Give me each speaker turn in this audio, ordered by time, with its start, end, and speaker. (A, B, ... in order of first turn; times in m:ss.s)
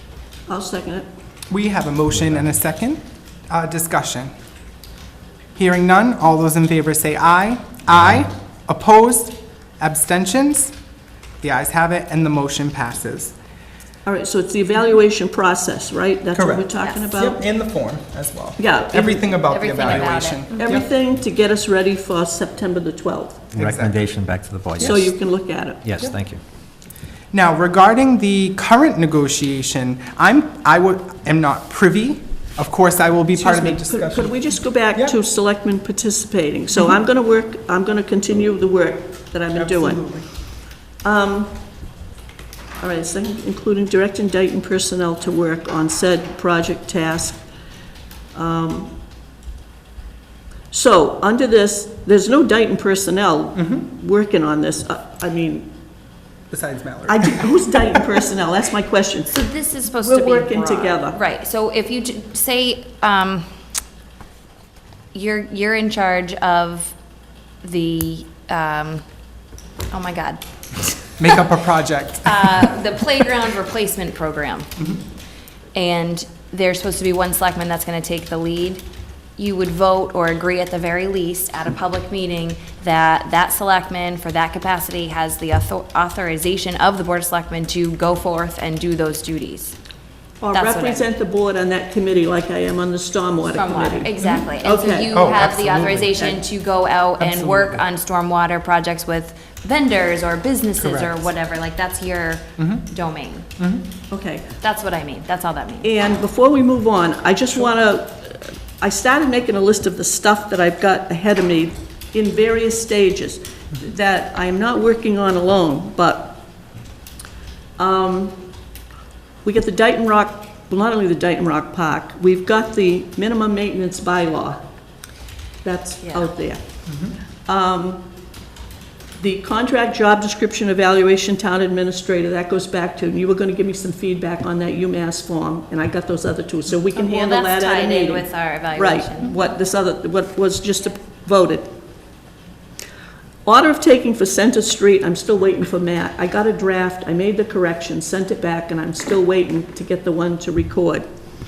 0:00.5-0:01.0 A
0:01.5-0:04.3 B
0:02.1-0:02.4 C
0:05.6-0:10.7 B
0:11.4-0:13.3 B
0:14.0-0:17.4 A
0:16.3-0:20.9 B
0:16.8-0:17.0 D
0:18.6-0:19.3 A
0:19.5-0:20.6 D
0:20.5-0:23.5 A
0:23.5-0:25.1 C
0:23.5-0:24.0 B
0:24.8-0:25.8 A
0:25.8-0:26.4 C
0:27.3-0:35.2 B
0:33.3-0:40.1 A
0:39.5-0:40.2 B
0:41.0-0:41.6 A
0:42.8-0:47.4 A
0:48.3-0:48.9 A
0:50.7-0:55.7 A
0:53.5-0:53.8 B
0:56.5-0:58.0 B
0:57.1-0:59.4 A
0:59.3-1:03.5 D
1:00.0-1:01.2 A
1:05.1-1:06.9 D
1:07.6-1:09.0 D
1:09.9-1:11.4 D
1:11.2-1:12.8 B
1:12.2-1:14.7 D
1:15.7-1:18.8 D
1:19.4-1:29.8 D
1:30.4-1:35.3 A
1:30.5-1:31.1 D
1:33.5-1:43.5 D
1:34.2-1:34.4 B
1:35.1-1:36.1 B
1:37.2-1:37.8 B
1:40.8-1:41.2 B
1:42.6-1:42.9 B
1:43.6-1:43.8 B
1:44.1-1:44.5 A
1:44.6-1:45.9 D
1:45.8-1:56.4 A
1:57.8-1:58.4 A
1:59.4-2:04.6 A
2:05.6-2:06.6 A
2:06.0-2:06.3 D
2:06.9-2:07.1 B
2:07.4-2:08.0 A
2:09.2-2:21.7 A
2:16.9-2:19.3 D
2:23.4-2:31.0 A